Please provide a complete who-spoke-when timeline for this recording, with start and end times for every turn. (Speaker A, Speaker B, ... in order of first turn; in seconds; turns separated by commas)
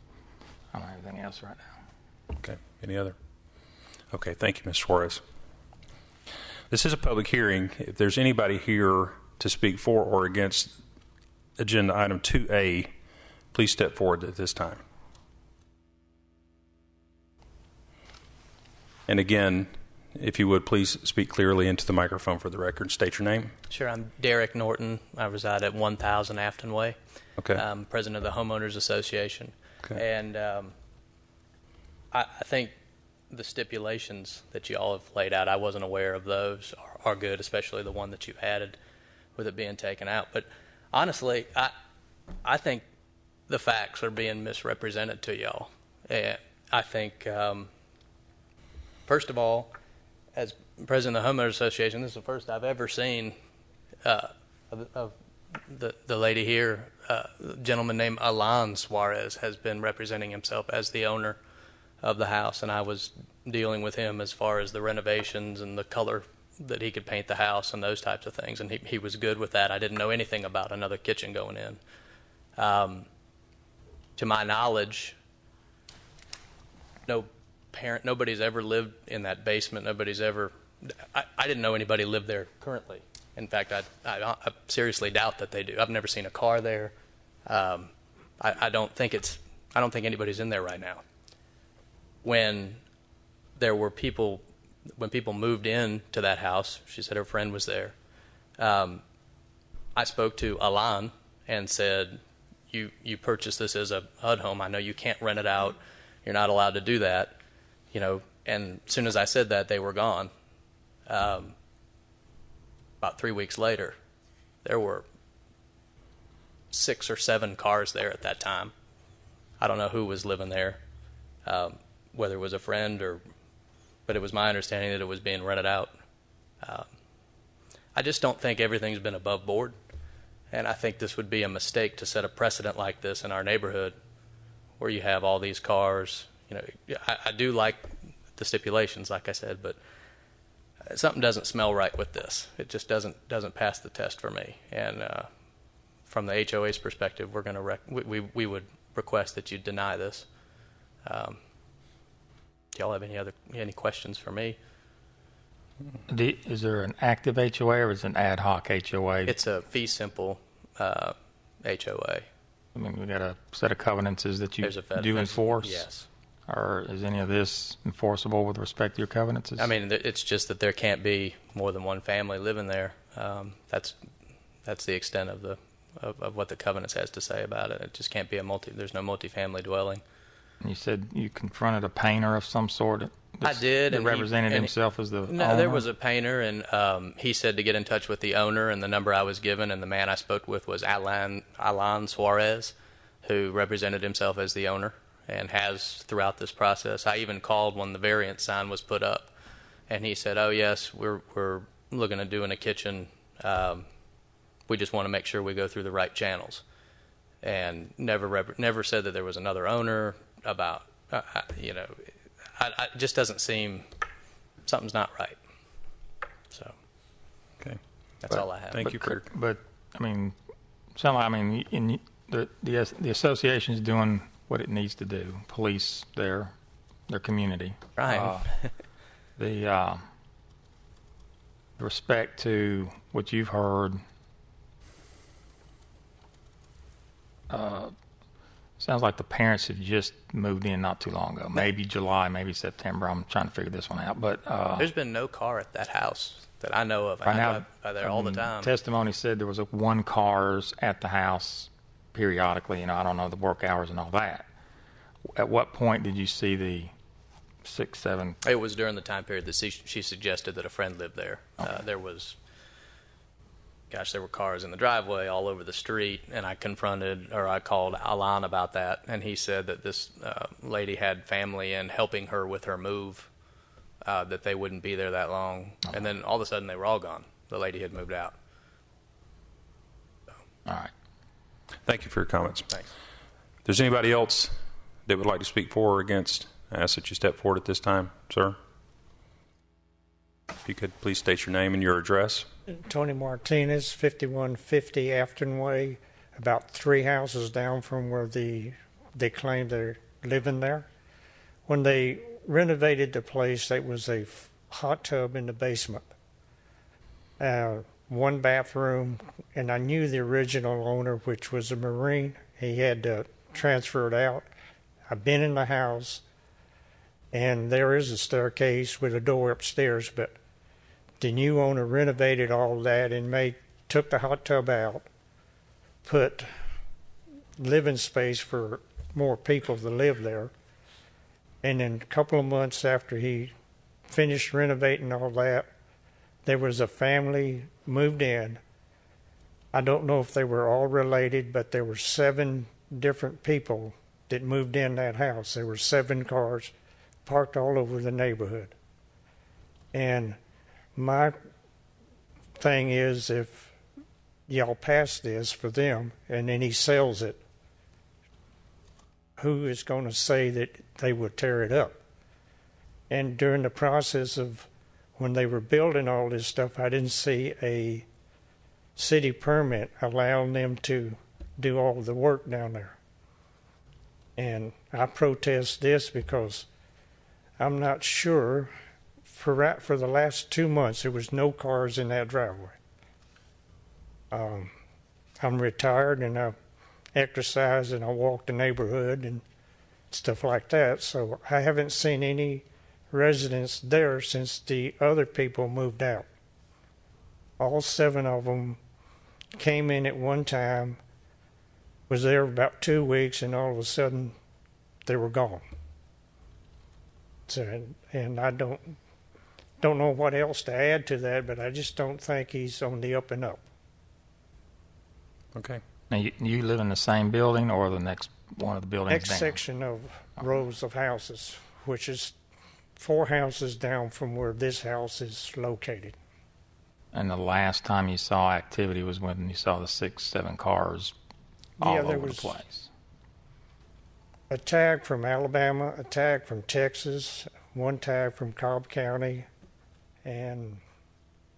Speaker A: 0.7-1.8, Speaker B: 2.4-3.1, Speaker B: 4.1-5.2, Speaker B: 6.7-10.8, Speaker B: 11.6-12.9, Speaker B: 13.5-14.8, Speaker B: 19.1-23.5, Speaker C: 23.7-27.0, Speaker C: 27.5-30.7, Speaker C: 32.1-32.8, Speaker C: 33.3-38.8, Speaker C: 39.4-41.7, Speaker C: 42.4-42.9, Speaker C: 43.5-47.7, Speaker C: 49.1-49.7, Speaker C: 50.4-53.4, Speaker C: 54.0-61.4, Speaker C: 62.0-71.8, Speaker C: 72.6-73.1, Speaker C: 74.2-75.2, Speaker C: 77.1-86.9, Speaker C: 87.5-91.0, Speaker C: 92.2-92.8, Speaker C: 93.6-94.4, Speaker C: 95.0-97.9, Speaker C: 98.6-99.0, Speaker C: 100.0-107.3, Speaker C: 107.9-110.3, Speaker C: 111.1-111.5, Speaker C: 113.0-114.0, Speaker C: 114.6-115.0, Speaker C: 116.7-118.7, Speaker C: 119.6-120.8, Speaker C: 121.5-123.2, Speaker C: 124.1-125.9, Speaker C: 126.6-126.9, Speaker C: 128.0-129.8, Speaker C: 130.5-134.0, Speaker C: 134.8-139.8, Speaker C: 140.9-145.3, Speaker C: 146.1-150.3, Speaker C: 151.0-151.4, Speaker C: 152.7-154.6, Speaker A: 156.1-159.4, Speaker C: 159.3-162.3, Speaker A: 162.8-165.9, Speaker C: 164.6-166.1, Speaker A: 166.5-169.7, Speaker C: 169.6-174.0, Speaker C: 174.6-180.0, Speaker A: 180.6-185.8, Speaker C: 183.4-184.7, Speaker C: 185.3-199.3, Speaker C: 199.9-203.9, Speaker C: 204.7-206.6, Speaker C: 207.4-213.9, Speaker C: 214.7-215.4, Speaker C: 218.2-218.8, Speaker B: 218.7-219.3, Speaker A: 218.8-220.4, Speaker A: 221.0-226.5, Speaker A: 227.1-228.5, Speaker C: 228.0-228.7, Speaker A: 229.4-230.1, Speaker A: 231.8-234.0, Speaker A: 237.5-237.9, Speaker A: 238.8-244.9, Speaker C: 244.8-248.7, Speaker A: 247.2-254.5, Speaker A: 255.3-256.9, Speaker A: 257.6-258.4, Speaker C: 258.4-262.4, Speaker C: 263.9-273.3, Speaker C: 274.0-278.4, Speaker A: 280.7-280.9, Speaker B: 281.9-282.7, Speaker B: 283.6-284.6, Speaker B: 285.1-288.6, Speaker B: 290.6-292.5, Speaker D: 292.7-300.9, Speaker D: 301.7-306.1, Speaker D: 307.4-314.5, Speaker D: 315.1-316.2, Speaker D: 317.3-320.4, Speaker D: 321.2-325.1, Speaker D: 326.0-326.5, Speaker D: 327.6-330.5, Speaker D: 331.6-333.5, Speaker D: 334.1-335.7, Speaker D: 336.4-338.6, Speaker D: 339.7-346.7, Speaker D: 347.2-348.7, Speaker D: 349.9-350.4, Speaker D: 351.0-351.4, Speaker D: 352.6-353.7, Speaker D: 354.5-357.4, Speaker D: 359.4-362.0, Speaker D: 363.1-368.1, Speaker D: 369.0-373.0, Speaker D: 374.4-376.7, Speaker D: 377.6-378.7, Speaker D: 379.3-382.8, Speaker D: 384.3-384.7, Speaker D: 385.4-386.6, Speaker D: 387.1-389.4, Speaker D: 390.1-396.3, Speaker D: 397.6-398.8, Speaker D: 399.6-401.0, Speaker D: 402.1-404.4, Speaker D: 405.1-405.6, Speaker D: 407.5-409.0, Speaker D: 409.8-413.6, Speaker B: 415.5-415.8, Speaker A: 416.1-419.6, Speaker D: 419.1-422.4, Speaker D: 423.0-426.2, Speaker A: 427.1-431.1, Speaker D: 431.8-432.6, Speaker A: 431.8-432.9, Speaker D: 434.5-439.5, Speaker D: 440.2-440.8